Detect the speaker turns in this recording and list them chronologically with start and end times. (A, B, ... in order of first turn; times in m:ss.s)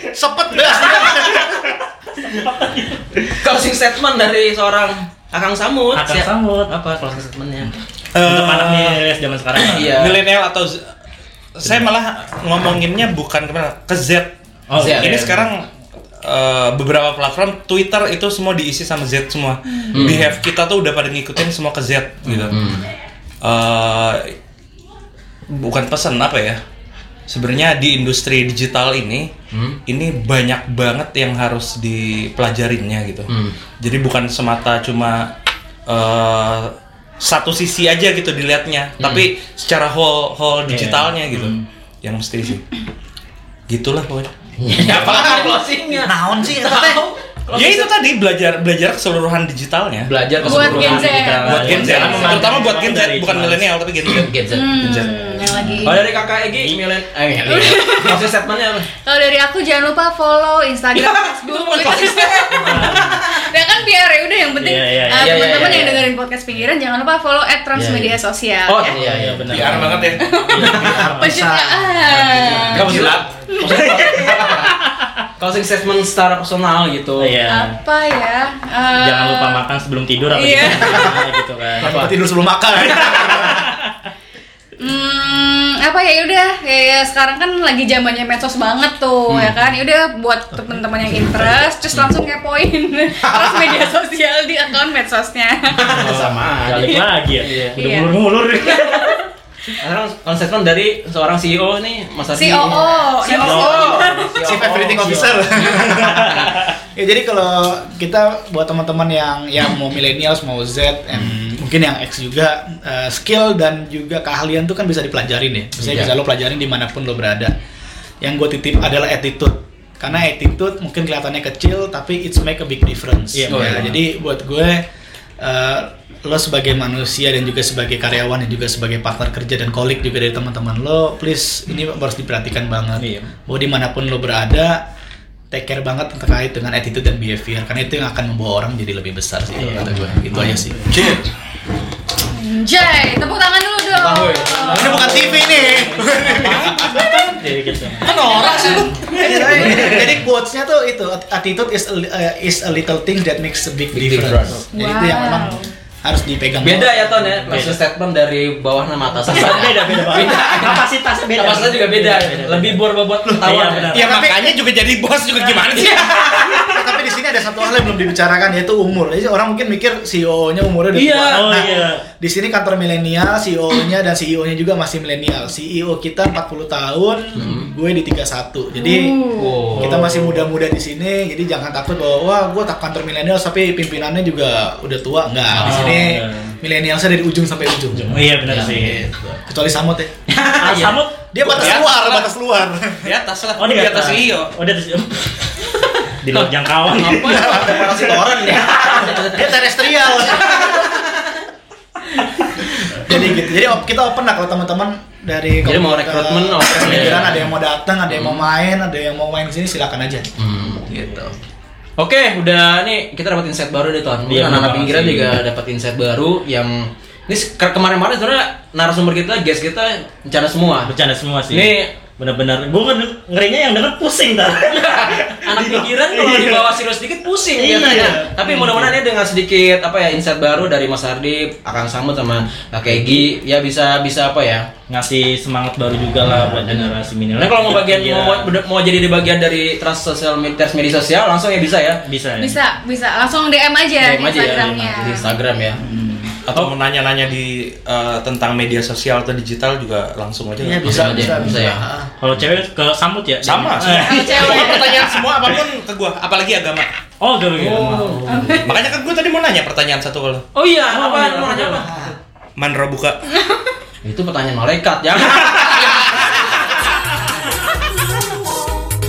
0:00.1-0:01.6 A
0:00.6-0:03.4 B
0:03.3-0:07.7 C
0:05.9-0:06.7 B
0:08.1-0:09.0 D
0:08.2-0:10.1 B
0:09.6-0:10.2 C
0:09.9-0:10.8 D
0:11.6-0:15.7 D
0:14.7-0:15.4 B
0:14.8-0:15.3 C
0:16.2-0:22.7 D
0:19.9-0:20.3 C
0:22.2-0:22.6 B
0:22.5-0:22.9 C
0:23.4-0:24.4 D
0:25.5-0:26.6 D
0:27.3-0:29.3 D
0:29.5-0:29.8 C
0:29.9-0:35.3 D
0:33.3-0:33.6 C
0:35.9-0:42.6 D
0:39.0-0:39.3 C
0:40.7-0:41.6 B
0:43.7-0:45.5 D
0:44.6-0:47.9 C
0:46.0-0:47.2 A
0:47.5-0:55.5 D
0:50.1-0:52.4 C
0:50.4-0:52.6 E
0:50.5-0:53.7 B
0:54.1-0:55.0 C
0:54.4-0:56.1 E
0:55.5-0:56.7 B
0:55.8-0:58.9 C
0:57.5-0:58.3 E
0:59.0-1:08.9 E
1:00.9-1:03.5 C
1:02.6-1:03.2 B
1:04.6-1:05.8 B
1:05.1-1:06.1 C
1:07.8-1:10.0 C
1:08.9-1:11.4 B
1:09.5-1:10.3 D
1:10.2-1:13.0 E
1:10.6-1:11.1 C
1:10.7-1:13.1 A
1:12.4-1:14.7 C
1:12.7-1:13.2 D
1:13.6-1:14.5 E
1:13.6-1:14.5 B
1:14.4-1:14.6 D
1:15.4-1:17.4 C
1:17.2-1:17.8 B
1:17.5-1:19.6 E
1:19.0-1:22.1 B
1:20.3-1:21.2 E
1:21.8-1:23.8 A
1:21.8-1:22.1 C
1:24.8-1:35.9 E
1:29.3-1:29.6 C
1:33.2-1:33.8 C
1:35.7-1:37.8 C
1:35.9-1:39.2 B
1:37.8-1:38.1 E
1:38.7-1:39.0 E
1:39.8-1:46.5 C
1:42.3-1:44.7 E
1:43.3-1:44.2 B
1:43.4-1:57.6 A
1:45.7-1:46.2 B
1:55.8-1:56.1 B
1:58.2-2:04.8 A
2:03.3-2:04.0 B
2:03.5-2:03.9 C
2:05.4-2:14.8 A
2:13.0-2:13.3 B
2:15.5-2:20.8 A
2:19.6-2:20.6 B
2:20.9-2:21.3 D
2:22.3-2:25.3 E
2:23.9-2:25.8 C
2:24.0-2:27.4 A
2:24.9-2:28.1 B
2:26.4-2:27.2 D
2:28.0-2:29.1 D
2:28.1-2:29.0 E
2:28.4-2:30.2 C
2:29.1-2:37.5 A
2:29.1-2:30.0 B
2:33.9-2:34.6 C
2:34.7-2:35.7 E
2:36.6-2:44.2 C
2:37.5-2:37.8 B
2:39.3-2:42.8 B
2:43.4-2:44.2 B
2:43.9-2:46.6 D
2:43.9-2:44.6 A
2:45.7-2:46.7 C
2:46.5-3:10.1 A
2:51.0-2:51.5 C
2:51.2-2:52.0 B
2:57.4-2:57.7 C
2:58.8-2:59.6 E
2:59.4-3:00.2 C
2:59.8-3:00.3 B
3:05.5-3:06.5 B
3:08.0-3:09.0 B
3:10.3-3:11.0 C
3:10.5-3:11.2 B
3:11.3-3:13.1 A
3:11.4-3:12.3 D
3:13.0-3:14.6 D
3:13.6-3:15.5 B
3:16.2-3:18.2 B
3:16.3-3:19.6 C
3:17.3-3:17.8 A
3:19.1-3:20.9 A
3:20.1-3:21.2 C
3:23.0-3:31.4 A
3:25.6-3:27.5 C
3:26.8-3:27.4 B
3:28.1-3:28.4 C
3:30.4-3:31.0 C
3:32.0-3:40.9 C
3:34.3-3:35.4 B
3:40.9-3:46.7 B
3:41.5-3:41.9 C
3:44.7-3:54.7 C
3:47.6-3:49.0 B
3:54.9-3:58.6 B
3:56.2-4:02.0 C
4:02.0-4:02.6 B
4:02.4-4:05.3 E
4:04.0-4:05.8 C
4:05.8-4:06.4 B
4:06.5-4:11.4 D
4:10.6-4:12.1 A
4:10.8-4:11.8 C
4:12.2-4:14.7 B
4:13.4-4:16.9 D
4:13.9-4:15.1 E
4:14.1-4:14.6 C
4:17.2-4:18.6 B
4:17.6-4:18.6 C
4:18.3-4:18.8 E
4:18.6-4:20.4 D
4:20.6-4:22.1 C
4:20.9-4:21.9 B
4:21.8-4:22.1 A
4:22.6-4:23.2 D
4:24.0-4:26.7 C
4:27.8-4:28.7 C